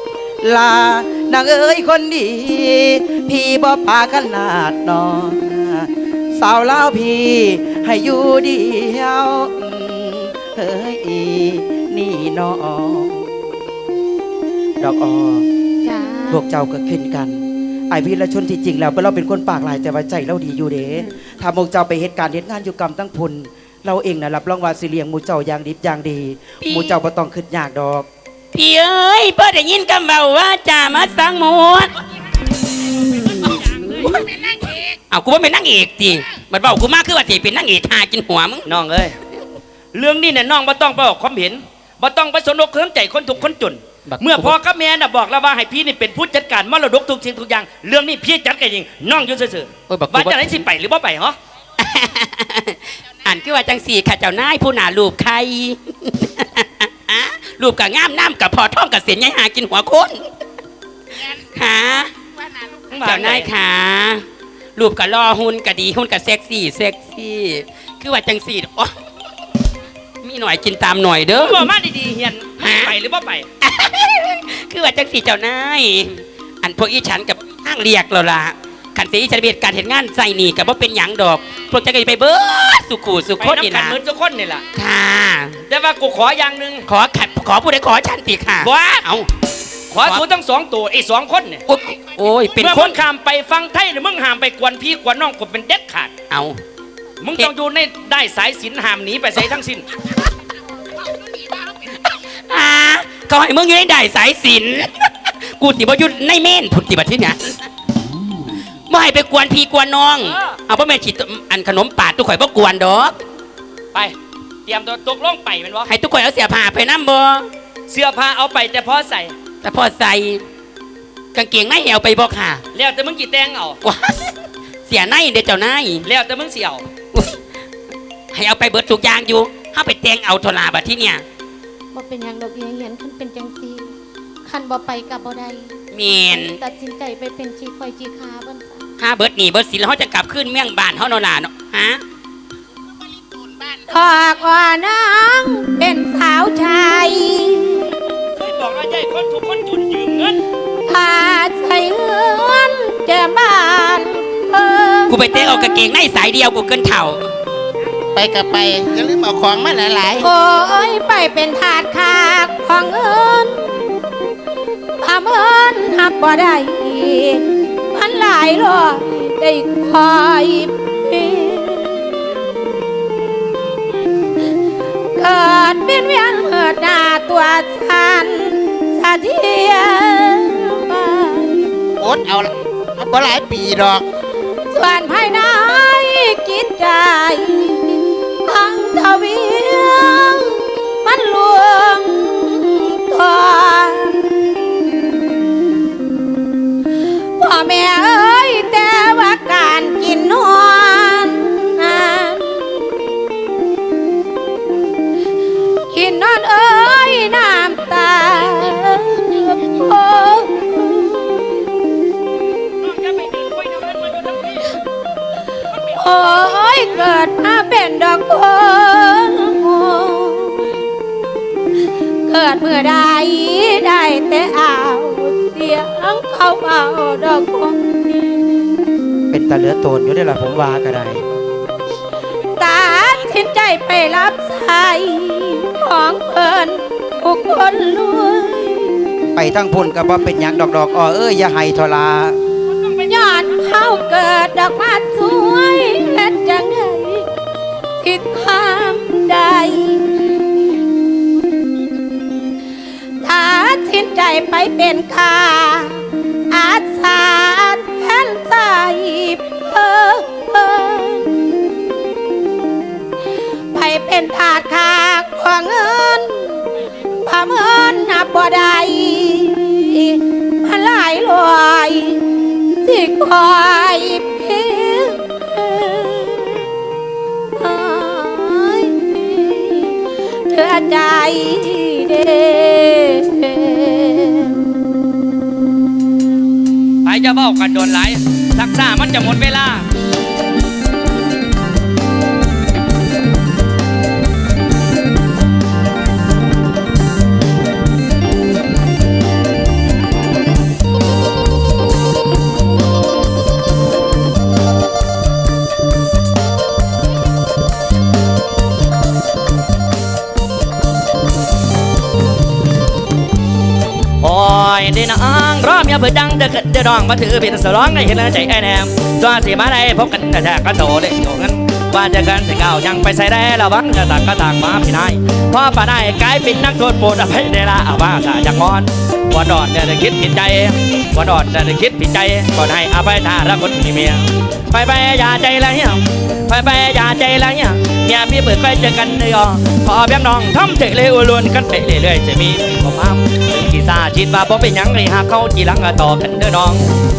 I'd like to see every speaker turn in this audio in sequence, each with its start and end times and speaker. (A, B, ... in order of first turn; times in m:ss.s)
0:00.4-0:13.3 A
0:14.8-0:15.5 A
0:15.8-0:16.4 B
0:16.3-0:28.1 A
0:26.6-0:27.0 C
0:28.5-0:31.9 C
0:33.6-0:34.2 D
0:34.0-0:34.3 C
0:34.0-0:34.9 E
0:35.1-0:38.7 C
0:38.7-0:39.2 D
0:39.9-0:51.4 D
0:44.1-0:44.5 C
0:49.9-0:50.6 C
0:51.8-1:00.2 C
1:01.5-1:02.1 C
1:02.4-1:02.9 E
1:02.9-1:03.5 D
1:03.0-1:04.2 C
1:04.8-1:09.0 C
1:10.2-1:11.7 C
1:11.4-1:13.5 D
1:12.6-1:13.0 C
1:13.6-1:24.0 C
1:23.4-1:24.6 D
1:24.8-1:25.6 C
1:25.7-1:26.8 D
1:26.9-1:29.3 C
1:28.6-1:29.0 D
1:29.9-1:31.6 D
1:31.7-1:33.0 C
1:32.6-1:36.1 D
1:36.3-1:36.6 C
1:37.2-1:39.9 D
1:42.4-1:47.6 C
1:48.9-1:53.2 C
1:50.3-1:50.6 D
1:54.7-1:55.9 D
1:55.9-1:57.5 C
1:57.9-1:59.3 D
1:59.6-2:00.4 C
2:01.4-2:02.6 C
2:02.7-2:03.8 D
2:03.8-2:04.3 C
2:04.9-2:06.0 C
2:06.0-2:06.8 D
2:08.3-2:11.2 C
2:11.9-2:13.9 B
2:14.4-2:15.8 B
2:15.9-2:16.6 C
2:16.3-2:18.9 B
2:19.0-2:22.0 C
2:23.0-2:23.8 E
2:23.9-2:28.0 B
2:28.4-2:30.4 D
2:30.9-2:35.6 B
2:35.1-2:37.2 C
2:38.1-2:40.3 E
2:40.2-2:44.0 B
2:45.0-2:52.2 B
2:55.2-3:01.7 B
3:02.0-3:04.1 E
3:04.7-3:15.0 B
3:17.4-3:23.1 B
3:25.9-3:31.6 B
3:32.8-3:34.7 D
3:35.9-3:36.4 D
3:35.9-3:40.7 B
3:42.3-3:48.5 B
3:49.3-3:51.2 A
3:52.6-3:59.0 B
3:59.3-4:02.4 A
4:03.1-4:07.3 B
4:08.0-4:10.0 B
4:13.2-4:21.4 B
4:23.7-4:26.6 B
4:27.2-4:32.2 B
4:32.8-4:36.7 B
4:37.6-4:40.0 B
4:40.5-4:44.5 B
4:47.0-4:49.8 D
5:14.2-5:46.8 D